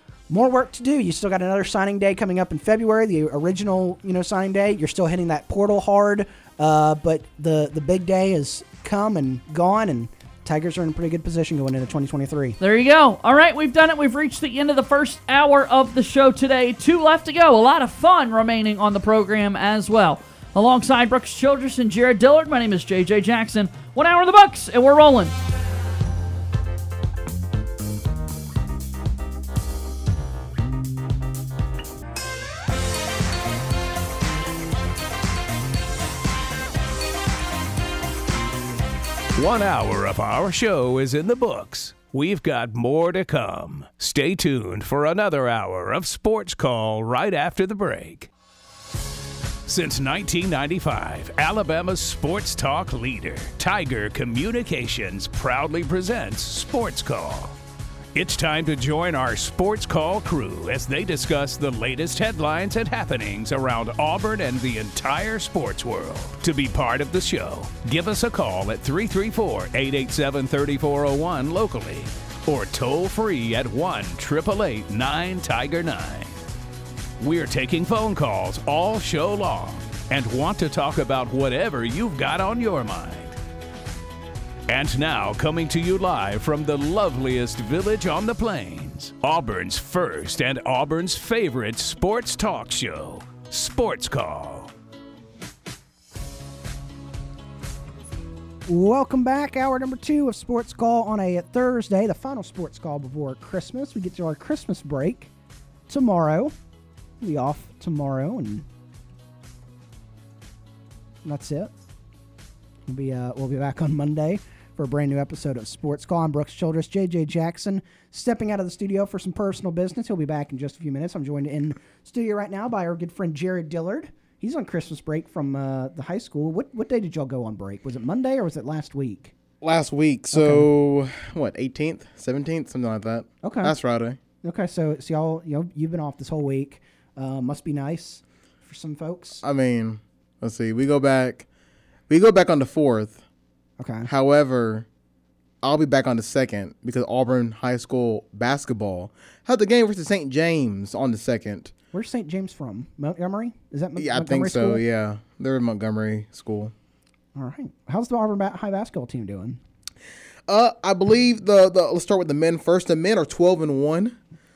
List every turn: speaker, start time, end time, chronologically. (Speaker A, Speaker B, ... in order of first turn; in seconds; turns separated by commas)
Speaker A: 0.3-12.6, Speaker B: 12.6-25.4, Speaker C: 39.4-48.3, Speaker C: 49.6-57.6, Speaker C: 58.1-76.4, Speaker C: 77.2-83.4, Speaker C: 84.7-94.7, Speaker A: 98.7-105.3, Speaker A: 105.9-106.5, Speaker A: 107.2-108.7, Speaker A: 111.2-111.7, Speaker A: 112.9-129.3, Speaker D: 129.6-134.2, Speaker A: 130.3-130.7, Speaker A: 133.4-133.8, Speaker A: 134.4-139.4, Speaker D: 139.4-141.4, Speaker D: 142.1-143.2, Speaker A: 143.8-144.1, Speaker D: 144.1-144.9, Speaker D: 145.6-151.7, Speaker A: 151.9-154.8, Speaker D: 154.0-156.7, Speaker A: 157.3-159.6, Speaker D: 160.5-164.2